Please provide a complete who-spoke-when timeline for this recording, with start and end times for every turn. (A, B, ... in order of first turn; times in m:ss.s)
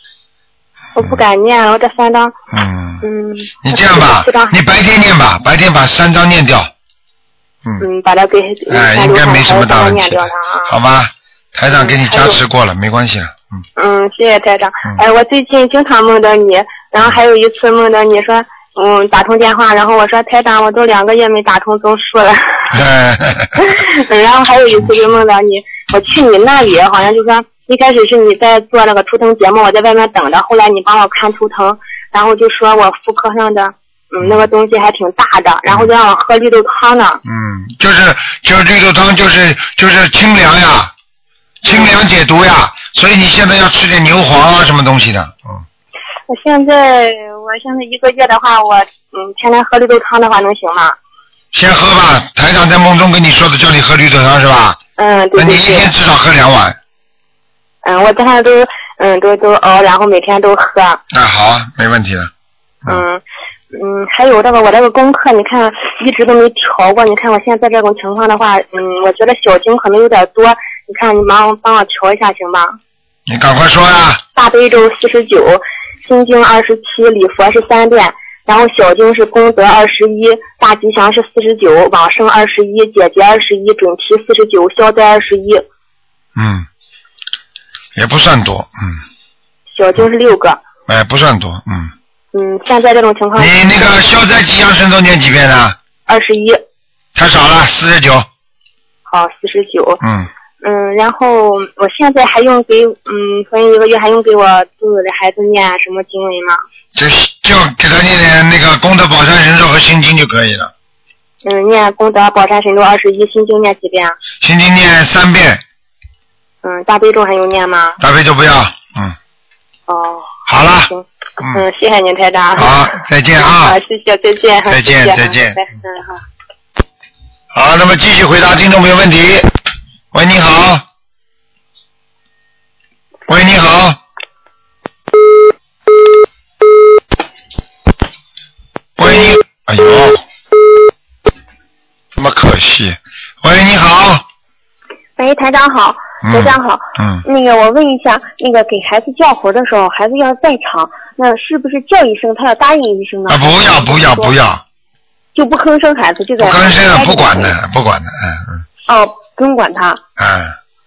0:01.0-0:02.3 A
0:02.5-0:03.1 B
0:03.0-0:04.5 A
0:03.6-0:06.7 B
0:07.8-0:10.7 A
0:08.7-0:13.6 B
0:11.7-0:12.4 A
0:13.8-0:22.4 A
0:22.7-0:23.7 B
0:23.9-0:37.2 A
0:34.2-0:34.5 B
0:37.2-0:40.9 B
0:41.6-0:45.6 B
0:46.3-0:51.0 A
0:51.5-0:54.8 B
0:55.0-0:55.9 A
0:55.3-0:56.8 B
0:57.8-1:01.0 A
1:01.1-1:02.3 B
1:02.9-1:03.2 A
1:03.7-1:12.7 A
1:13.3-1:14.2 B
1:14.4-1:25.6 A
1:26.4-1:26.7 B
1:28.0-1:29.0 B
1:29.8-1:30.6 A
1:30.9-1:31.9 B
1:32.3-1:33.5 A
1:33.4-1:35.8 B
1:36.1-1:36.6 A
1:37.2-1:38.3 B
1:39.1-1:40.0 A
1:40.0-1:40.3 B
1:40.6-1:46.6 A
1:47.0-1:50.7 B
1:51.4-1:54.1 A
1:54.4-1:55.6 B
1:56.6-1:58.0 A
1:58.0-1:59.2 B
1:59.9-2:00.3 A
2:00.5-2:01.6 B
2:00.9-2:02.7 A
2:02.6-2:03.8 B
2:03.6-2:06.2 A
2:04.7-2:05.6 B
2:07.5-2:09.5 B
2:10.1-2:10.8 B
2:13.3-2:14.0 B
2:19.0-2:20.2 B
2:22.2-2:24.2 B
2:25.2-2:34.4 C
2:26.2-2:27.2 B
2:33.3-2:34.6 B
2:35.4-2:37.6 C
2:36.4-2:38.6 B
2:38.9-2:40.0 C
2:40.2-2:40.6 B